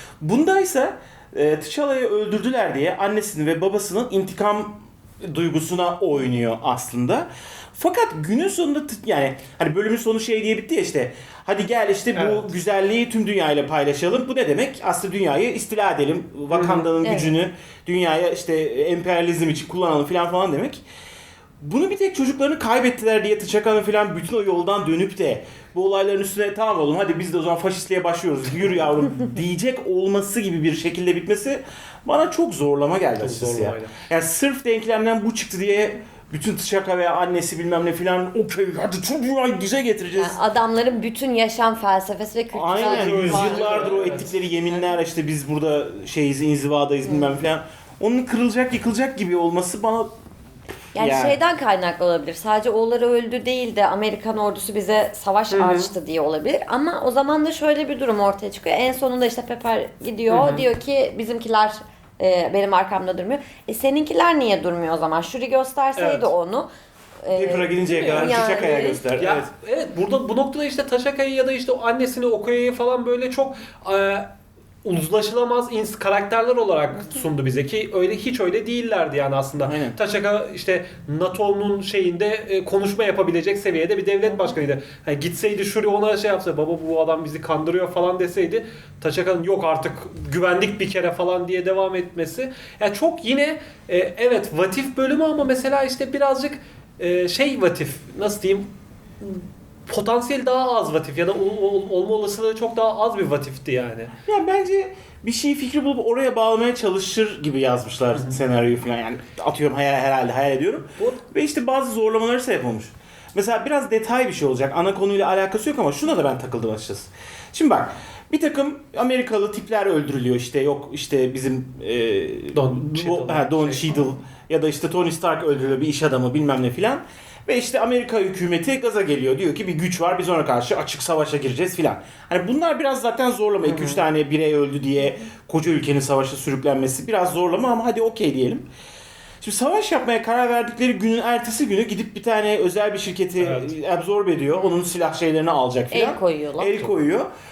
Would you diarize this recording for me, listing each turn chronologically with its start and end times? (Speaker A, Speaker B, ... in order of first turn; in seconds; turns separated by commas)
Speaker A: 0.2-20.8, Speaker B: 12.2-12.5, Speaker B: 16.5-16.9, Speaker C: 17.0-17.4, Speaker A: 21.6-40.4, Speaker B: 33.1-33.9, Speaker C: 40.1-44.0, Speaker A: 42.5-50.1, Speaker B: 42.7-44.8, Speaker C: 47.1-47.4, Speaker C: 50.9-66.7, Speaker A: 51.0-51.4, Speaker B: 55.5-55.9, Speaker B: 60.3-60.7, Speaker B: 66.0-66.3, Speaker C: 67.2-69.0, Speaker A: 67.3-69.5, Speaker B: 68.0-68.5, Speaker B: 69.2-74.3, Speaker B: 74.8-98.7, Speaker A: 79.7-80.0, Speaker B: 99.2-104.1, Speaker A: 104.3-138.7, Speaker B: 111.0-111.2, Speaker B: 122.5-124.1, Speaker B: 133.6-134.0, Speaker A: 139.4-147.3, Speaker B: 143.4-143.8, Speaker C: 145.9-146.8